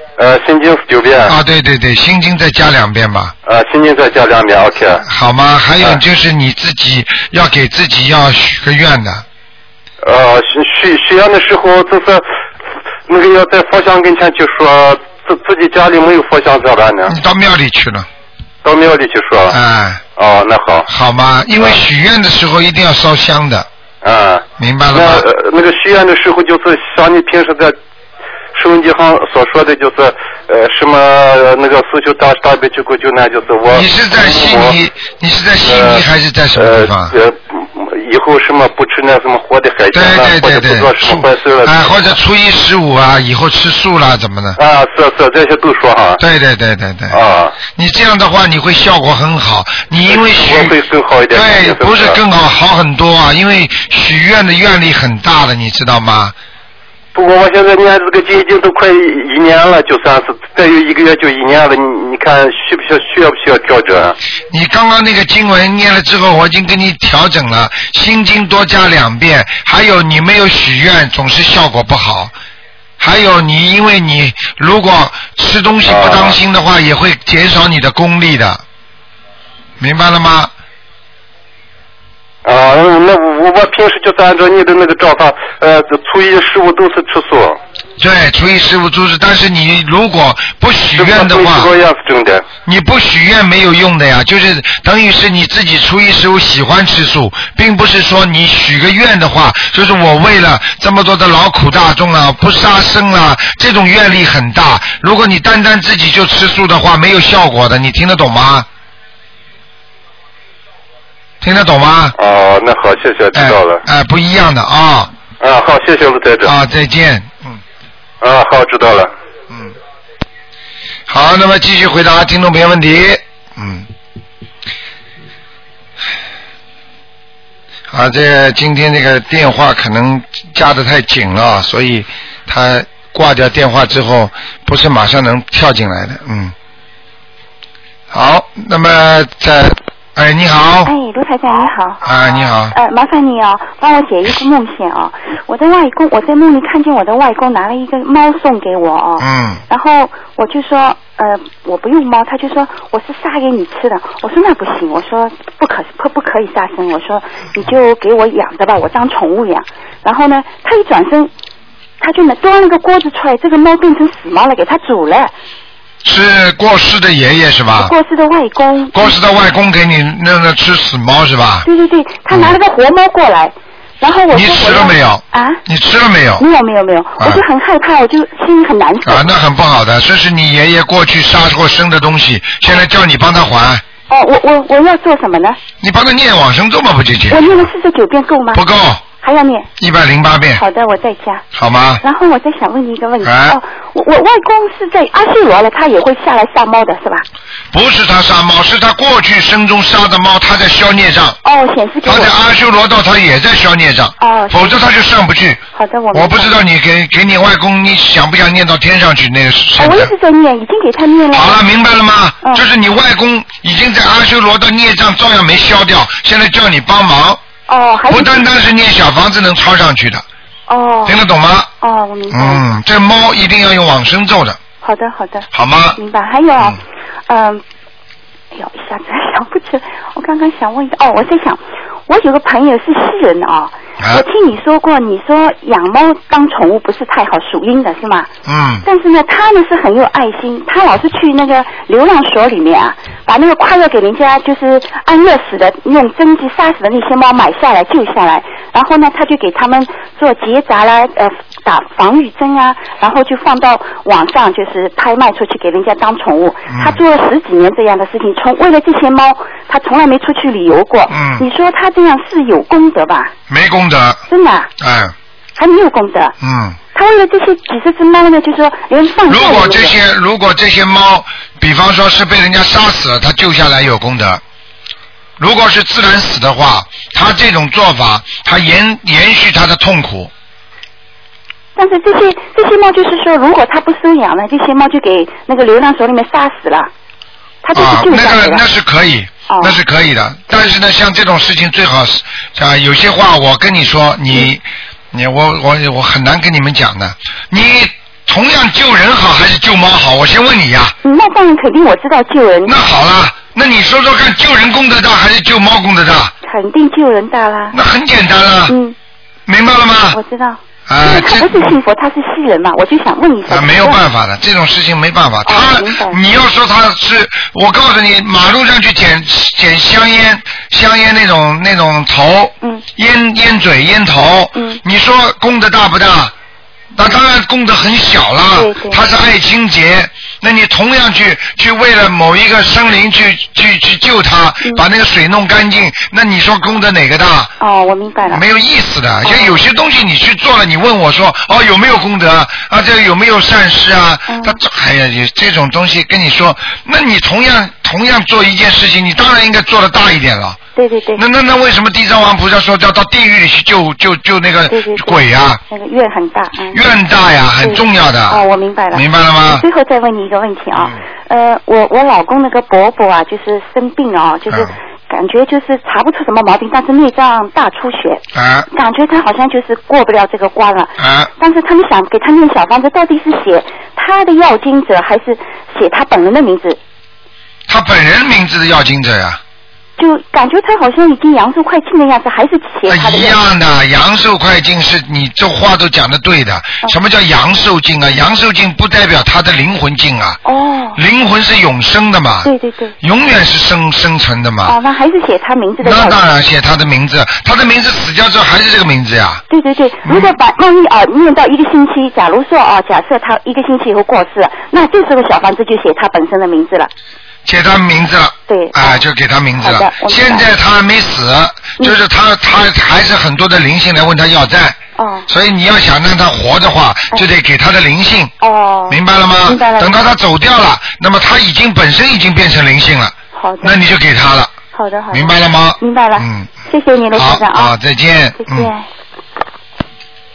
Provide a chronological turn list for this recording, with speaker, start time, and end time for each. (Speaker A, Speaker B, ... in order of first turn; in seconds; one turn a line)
Speaker A: 0.2-1.3
Speaker B: 1.2-3.3
Speaker A: 3.5-5.0
Speaker B: 5.0-9.2
Speaker A: 10.0-12.2
Speaker A: 13.1-17.1
Speaker B: 17.1-18.1
Speaker A: 18.6-19.6
Speaker B: 19.5-20.0
Speaker A: 20.1-20.9
Speaker B: 20.9-23.7
Speaker A: 24.0-27.7
Speaker B: 24.6-25.3
Speaker A: 28.5-34.7
Speaker B: 33.7-37.1
Speaker A: 35.6-36.0
Speaker A: 36.6-42.0
Speaker B: 39.9-44.6
Speaker A: 44.6-46.2
Speaker B: 46.2-47.2
Speaker A: 47.1-47.5
Speaker B: 47.7-50.8
Speaker A: 50.1-52.2
Speaker B: 51.3-56.3
Speaker A: 57.1-64.2
Speaker B: 64.5-72.3
Speaker B: 73.0-78.6
Speaker A: 75.8-76.4
Speaker B: 79.8-80.5
Speaker A: 82.4-87.6
Speaker B: 88.0-91.7
Speaker A: 91.0-92.4
Speaker B: 92.7-108.7
Speaker B: 111.4-112.2
Speaker A: 112.2-113.8
Speaker B: 113.3-115.1
Speaker A: 115.4-116.5
Speaker B: 116.4-117.6
Speaker A: 118.2-119.1
Speaker B: 121.1-123.9
Speaker B: 127.9-136.5
Speaker B: 138.1-140.9
Speaker C: 140.8-142.0
Speaker B: 142.0-142.8
Speaker C: 142.7-161.3
Speaker B: 149.2-149.6
Speaker C: 162.0-165.3
Speaker B: 166.0-167.9
Speaker C: 167.8-169.1
Speaker B: 168.9-171.7
Speaker C: 171.7-175.6
Speaker B: 172.3-172.6
Speaker B: 174.3-176.4
Speaker C: 176.4-179.3
Speaker B: 179.0-183.8
Speaker C: 184.1-185.6
Speaker B: 185.8-187.7
Speaker C: 187.3-189.7
Speaker B: 188.5-189.0
Speaker B: 189.8-190.6
Speaker C: 190.5-191.4
Speaker B: 191.5-192.0
Speaker C: 192.0-197.2
Speaker B: 193.2-193.6
Speaker B: 197.7-201.4
Speaker C: 201.4-202.3
Speaker B: 202.0-205.6
Speaker C: 204.2-204.8
Speaker C: 205.7-206.5
Speaker B: 206.1-210.1
Speaker C: 209.8-211.6
Speaker B: 211.3-217.4
Speaker C: 217.7-218.4
Speaker B: 218.1-220.2
Speaker C: 220.7-221.2
Speaker B: 221.1-221.7
Speaker C: 221.8-222.6
Speaker B: 222.3-224.6
Speaker C: 224.8-227.6
Speaker B: 225.5-226.0
Speaker C: 228.5-238.3
Speaker B: 234.0-234.2
Speaker B: 238.4-238.8
Speaker C: 238.8-263.3
Speaker B: 256.7-257.0
Speaker B: 261.1-261.4
Speaker B: 263.5-264.2
Speaker C: 264.3-264.7
Speaker B: 264.8-265.1
Speaker C: 265.6-266.3
Speaker B: 266.4-266.8
Speaker C: 266.9-269.9
Speaker B: 269.3-274.4
Speaker B: 275.4-280.3
Speaker C: 281.8-286.9
Speaker C: 287.6-288.6
Speaker B: 287.7-300.9
Speaker C: 289.5-289.8
Speaker C: 301.0-302.7
Speaker B: 302.6-306.3
Speaker C: 306.4-307.8
Speaker B: 307.7-308.7
Speaker C: 308.7-308.9
Speaker B: 309.5-310.2
Speaker C: 310.1-314.0
Speaker B: 310.9-311.8
Speaker B: 313.5-326.3
Speaker C: 315.4-316.2
Speaker B: 326.9-337.5
Speaker C: 328.6-329.0
Speaker C: 337.6-338.4
Speaker B: 338.3-350.6
Speaker C: 339.2-339.6
Speaker C: 344.3-344.6
Speaker C: 350.7-351.2
Speaker B: 351.1-355.6
Speaker C: 354.7-355.2
Speaker C: 355.7-356.8
Speaker B: 356.7-359.6
Speaker C: 357.6-376.8
Speaker B: 368.3-368.7
Speaker B: 371.0-371.3
Speaker B: 377.7-379.4
Speaker C: 380.0-383.4
Speaker B: 382.9-390.4
Speaker C: 390.4-391.0
Speaker B: 390.9-392.5
Speaker C: 392.4-392.9
Speaker B: 393.0-394.8
Speaker C: 394.6-396.2
Speaker B: 395.8-399.4
Speaker C: 399.5-406.9
Speaker B: 400.1-400.3
Speaker B: 407.4-418.3
Speaker C: 408.5-409.0
Speaker C: 409.6-410.4
Speaker C: 414.9-415.3
Speaker C: 418.4-420.0
Speaker B: 418.9-424.5
Speaker C: 423.3-423.8
Speaker C: 424.7-427.7
Speaker B: 425.1-426.5
Speaker B: 427.1-428.7
Speaker C: 428.4-428.8